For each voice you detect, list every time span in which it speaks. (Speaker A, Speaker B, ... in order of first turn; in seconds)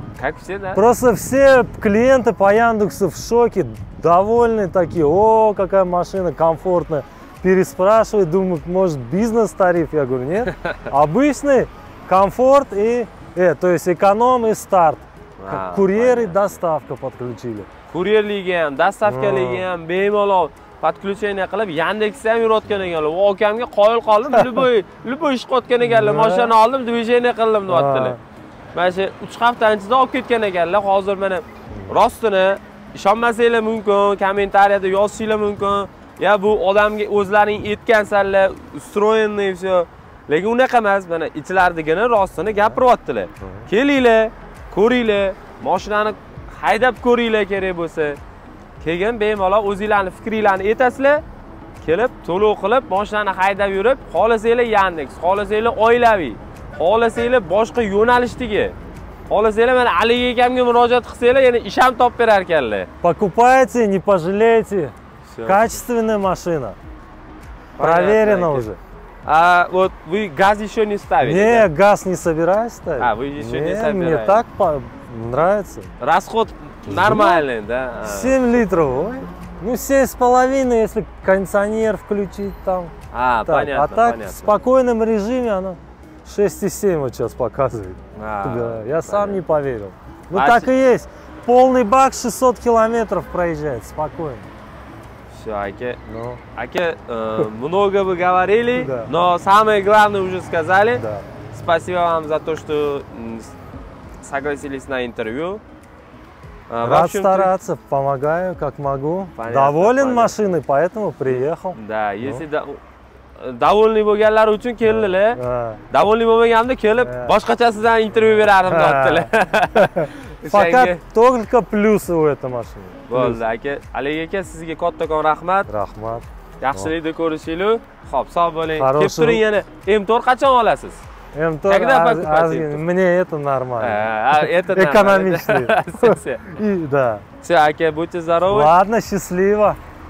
Speaker A: 0.2-0.8, 15.4-16.5, 17.9-28.2, 28.8-48.2, 48.8-51.2, 51.8-58.8, 59.3-62.9, 65.3-65.8, 67.8-68.7, 69.2-71.7, 73.0-74.4, 76.0-78.6, 83.1-84.5, 88.2-89.4, 90.3-90.7, 95.3-96.0, 96.5-103.5, 104.2-105.6, 106.7-107.5, 109.4-110.4, 111.3-112.8, 113.4-115.4, 115.9-121.0, 123.1-125.7, 126.6-131.0, 131.7-132.8, 133.8-136.4, 137.4-138.7
Speaker B: 0.7-17.7, 19.1-19.6, 25.8-26.5, 27.7-28.2, 43.4-43.7, 63.0-64.9, 65.5-66.8, 67.8-68.8, 71.2-75.9, 76.9-77.4, 78.0-82.9, 83.5-94.5, 96.1-96.4, 98.8-99.1, 101.0-101.2, 106.8-112.4, 114.8-115.8, 117.0-117.3, 118.2-123.4, 125.7-126.9, 128.8-129.4, 131.3-137.2, 138.5-139.8